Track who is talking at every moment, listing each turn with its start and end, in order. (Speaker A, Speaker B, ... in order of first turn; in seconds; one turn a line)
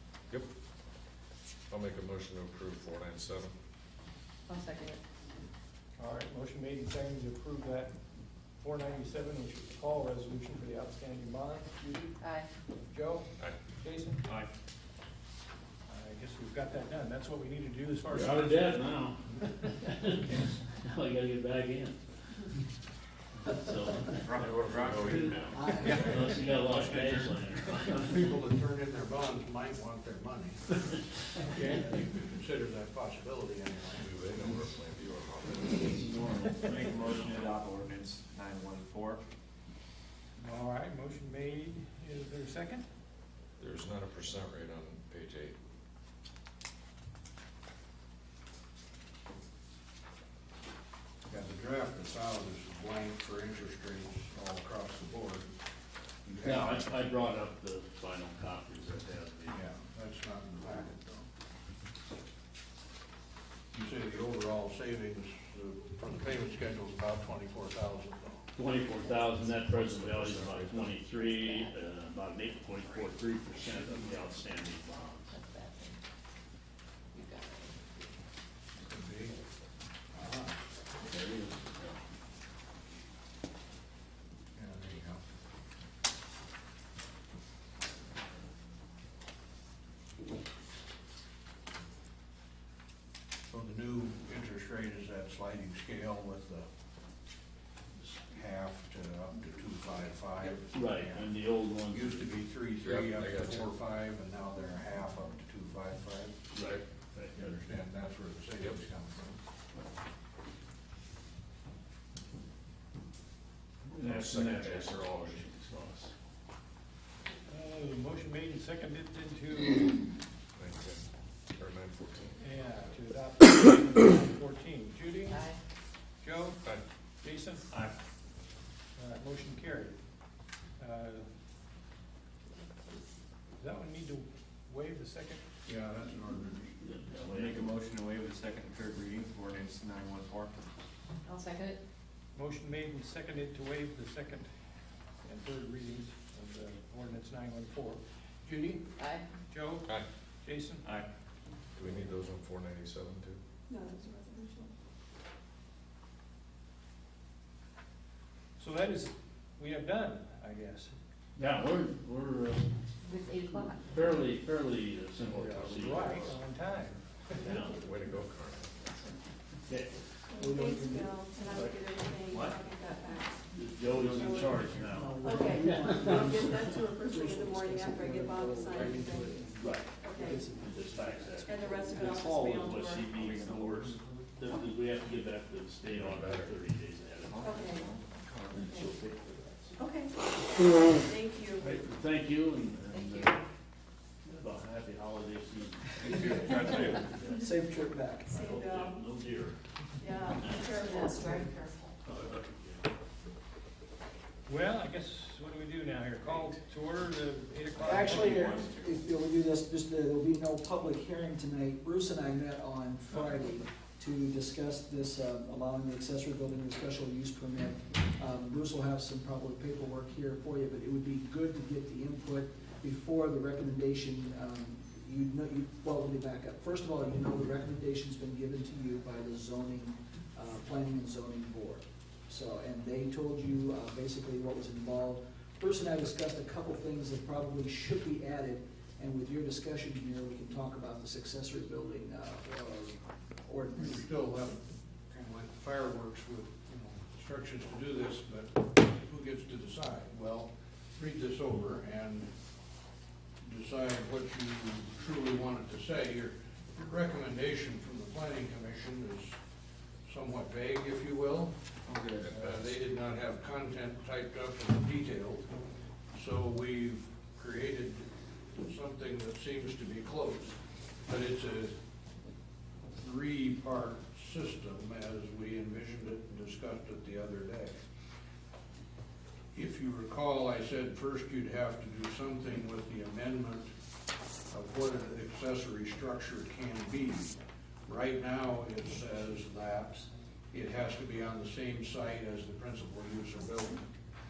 Speaker A: 1.7-3.5
Speaker B: 4.5-5.0
Speaker C: 6.0-7.9
Speaker C: 8.6-12.2
Speaker B: 12.2-12.5
Speaker C: 12.9-14.2
Speaker C: 15.9-18.8
Speaker D: 18.1-22.0
Speaker D: 23.4-24.3
Speaker E: 24.2-25.3
Speaker A: 24.3-25.8
Speaker D: 24.9-28.1
Speaker C: 25.8-26.9
Speaker F: 26.7-30.9
Speaker F: 31.5-34.1
Speaker A: 34.0-36.1
Speaker D: 35.8-37.2
Speaker E: 36.6-39.2
Speaker C: 40.4-42.8
Speaker A: 43.6-45.5
Speaker F: 51.3-55.5
Speaker F: 56.2-56.9
Speaker D: 56.4-59.6
Speaker F: 59.5-61.3
Speaker F: 63.7-68.5
Speaker D: 68.5-75.3
Speaker B: 69.0-69.5
Speaker A: 69.7-71.0
Speaker B: 71.0-71.8
Speaker B: 75.3-76.0
Speaker B: 77.1-78.1
Speaker F: 78.8-79.3
Speaker F: 80.1-80.6
Speaker D: 81.0-82.0
Speaker F: 84.5-85.2
Speaker F: 93.5-96.7
Speaker F: 98.3-101.2
Speaker D: 100.7-102.3
Speaker F: 101.9-106.5
Speaker A: 102.8-103.7
Speaker D: 106.5-107.6
Speaker F: 107.3-109.4
Speaker D: 113.9-116.1
Speaker A: 113.9-115.5
Speaker C: 117.5-120.0
Speaker A: 120.5-121.0
Speaker A: 121.5-122.4
Speaker C: 122.4-125.4
Speaker B: 125.3-125.6
Speaker C: 126.2-126.6
Speaker C: 127.2-127.7
Speaker C: 129.0-130.0
Speaker C: 130.8-131.3
Speaker B: 132.5-133.0
Speaker C: 133.6-135.4
Speaker F: 135.7-136.7
Speaker D: 136.8-137.7
Speaker E: 137.3-140.7
Speaker B: 141.2-141.8
Speaker C: 142.3-144.5
Speaker C: 145.2-148.0
Speaker F: 148.4-148.8
Speaker B: 149.0-149.2
Speaker C: 149.5-149.9
Speaker C: 150.4-150.8
Speaker A: 151.7-153.4
Speaker G: 153.7-154.7
Speaker C: 158.6-160.9
Speaker D: 161.3-162.6
Speaker B: 163.0-164.0
Speaker D: 163.8-166.4
Speaker A: 165.5-166.3
Speaker C: 165.8-167.4
Speaker D: 167.4-167.8
Speaker A: 167.7-168.8
Speaker D: 169.7-169.9
Speaker G: 170.3-173.5
Speaker H: 170.4-171.2
Speaker D: 171.5-171.8
Speaker D: 173.5-176.7
Speaker G: 174.1-179.5
Speaker H: 174.8-182.0
Speaker D: 179.5-187.8
Speaker G: 180.0-180.5
Speaker G: 181.4-183.2
Speaker E: 182.1-184.2
Speaker A: 185.8-186.6
Speaker E: 187.3-188.1
Speaker G: 187.4-187.9
Speaker D: 188.5-189.8
Speaker G: 188.6-188.9
Speaker G: 189.8-191.8
Speaker D: 191.6-193.4
Speaker B: 192.9-193.4
Speaker D: 194.2-197.5
Speaker H: 196.1-196.6
Speaker E: 196.1-197.0
Speaker H: 197.3-198.3
Speaker G: 198.3-199.1
Speaker D: 198.3-199.6
Speaker G: 200.0-201.7
Speaker D: 200.3-201.0
Speaker B: 200.6-201.9
Speaker D: 202.0-202.8
Speaker C: 204.4-208.6
Speaker E: 207.7-209.1
Speaker H: 207.8-244.1
Speaker F: 243.8-252.3
Speaker F: 253.4-259.4
Speaker F: 260.1-261.6
Speaker E: 261.9-262.3
Speaker A: 262.2-262.7
Speaker F: 262.4-265.5
Speaker F: 266.1-271.7
Speaker F: 272.9-277.8
Speaker F: 279.5-283.7
Speaker F: 284.5-293.9